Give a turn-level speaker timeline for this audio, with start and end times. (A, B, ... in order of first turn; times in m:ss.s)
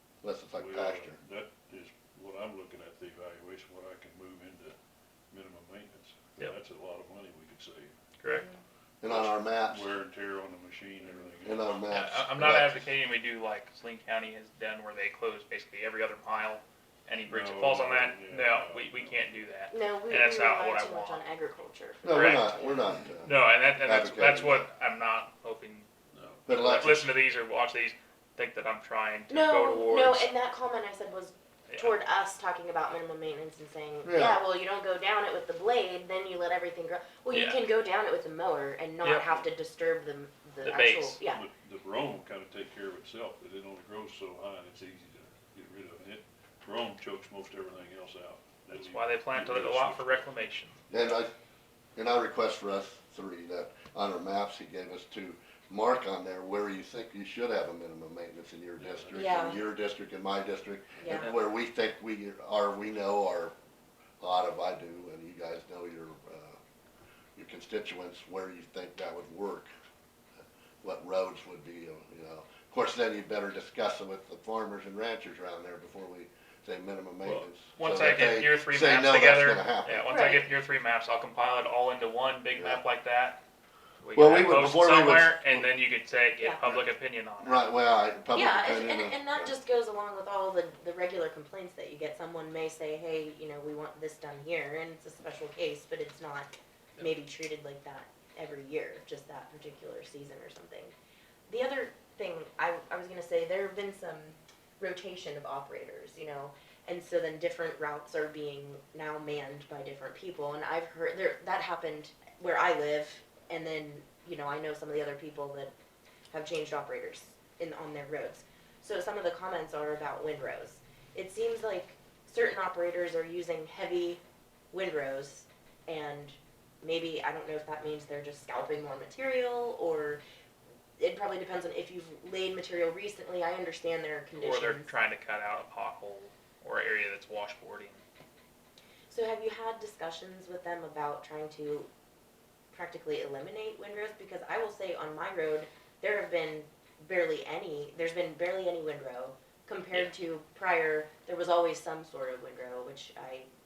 0:00.2-0:01.2 A
0:00.5-0:04.8 B
0:05.3-0:07.9 B
0:08.2-0:08.5 C
0:08.3-0:08.5 D
0:09.0-0:09.9 A
0:09.0-0:11.8 B
0:11.4-0:12.8 A
0:11.9-0:21.2 C
0:17.3-0:19.3 B
0:19.7-0:22.8 D
0:22.0-0:24.6 A
0:22.1-0:22.6 C
0:23.2-0:25.9 C
0:26.1-0:26.4 B
0:26.5-0:27.1 A
0:26.5-0:30.3 C
0:29.3-0:41.4 D
0:31.7-0:31.9 C
0:34.0-0:34.4 A
0:37.3-0:37.6 C
0:39.0-0:39.4 C
0:40.6-0:41.2 C
0:41.3-0:50.3 B
0:48.7-0:50.8 C
0:50.9-0:51.3 A
0:52.0-1:03.5 A
0:58.8-0:59.6 B
0:59.1-0:59.6 D
1:01.0-1:01.3 D
1:04.2-1:06.6 A
1:07.4-1:09.7 A
1:10.8-1:20.1 A
1:17.2-1:23.4 C
1:20.0-1:20.5 D
1:22.5-1:22.8 A
1:24.0-1:27.6 C
1:24.1-1:25.7 A
1:27.4-1:29.5 A
1:28.3-1:40.9 D
1:41.5-1:55.7 D
1:56.3-2:04.2 D
2:04.7-2:10.2 D
2:11.0-2:14.9 D
2:14.4-2:18.0 C
2:19.1-2:21.9 D
2:22.7-2:33.5 D